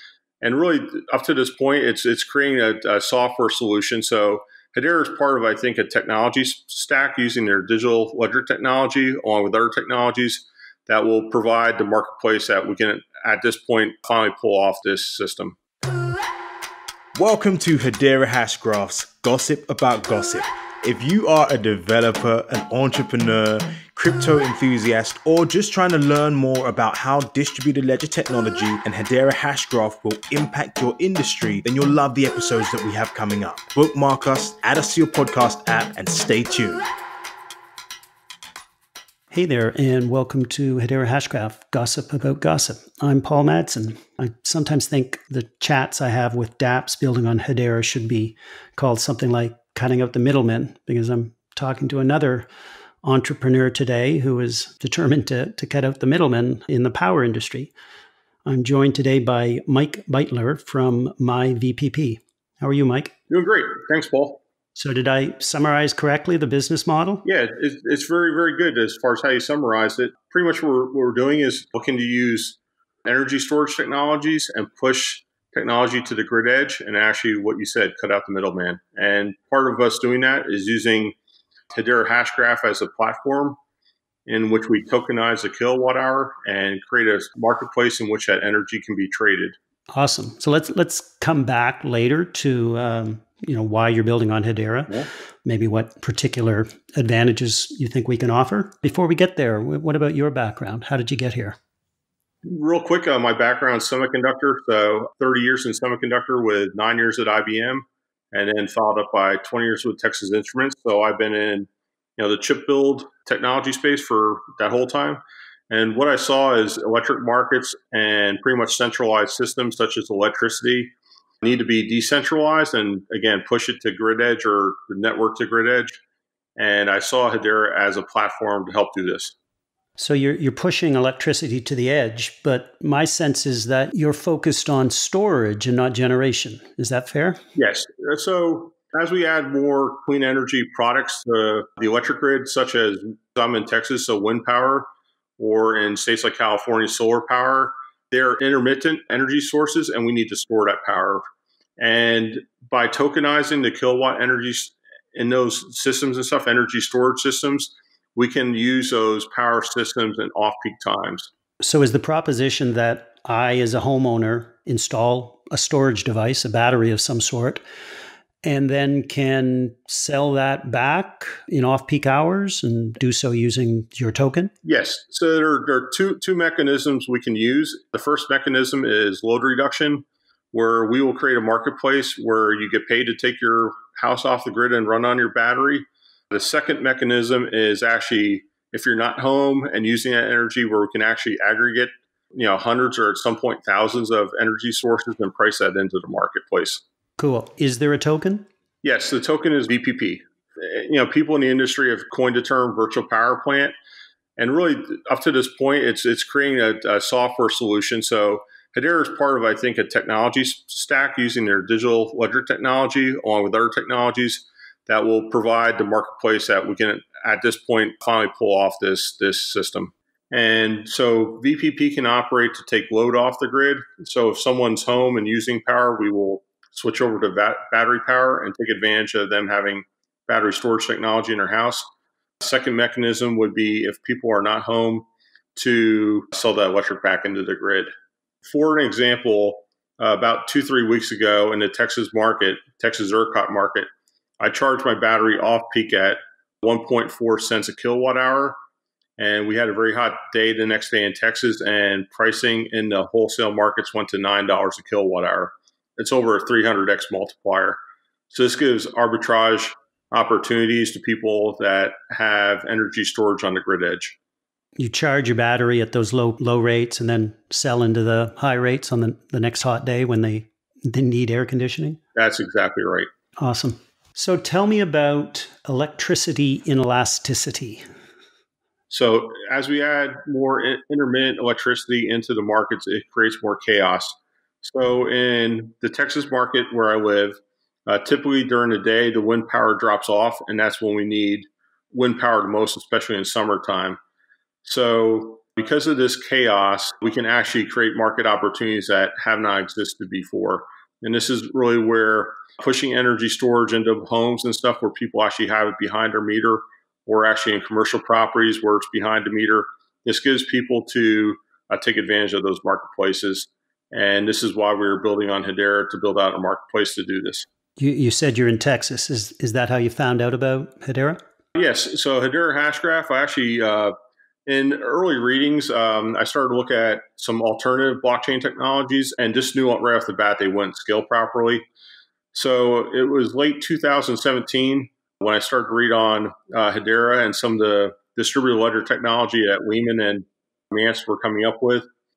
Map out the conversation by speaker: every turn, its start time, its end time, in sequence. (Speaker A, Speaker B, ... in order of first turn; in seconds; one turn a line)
Speaker A: 0.4-15.6
Speaker B: 17.1-36.9
Speaker C: 39.3-52.5
Speaker C: 53.0-57.7
Speaker C: 58.5-63.1
Speaker A: 63.3-64.4
Speaker C: 64.8-67.2
Speaker A: 67.2-81.1
Speaker A: 81.7-83.6
Speaker A: 84.2-89.5
Speaker C: 89.9-101.6
Speaker A: 102.4-126.0
Speaker A: 126.5-129.3
Speaker C: 130.0-137.4
Speaker A: 137.5-144.8
Speaker A: 145.4-151.2
Speaker A: 151.8-161.3
Speaker C: 161.6-167.6
Speaker C: 168.4-174.5
Speaker A: 174.6-196.8
Speaker C: 197.2-198.4
Speaker A: 198.8-203.7
Speaker A: 204.4-231.9
Speaker A: 232.4-237.9
Speaker A: 238.4-243.9
Speaker A: 244.4-248.6
Speaker A: 249.2-257.8
Speaker A: 258.3-264.1
Speaker C: 264.8-272.0
Speaker A: 272.1-273.1
Speaker C: 273.4-277.8
Speaker A: 278.9-294.0
Speaker A: 294.6-317.4
Speaker C: 317.8-321.2
Speaker A: 321.5-323.9
Speaker A: 324.4-331.6
Speaker A: 332.3-341.9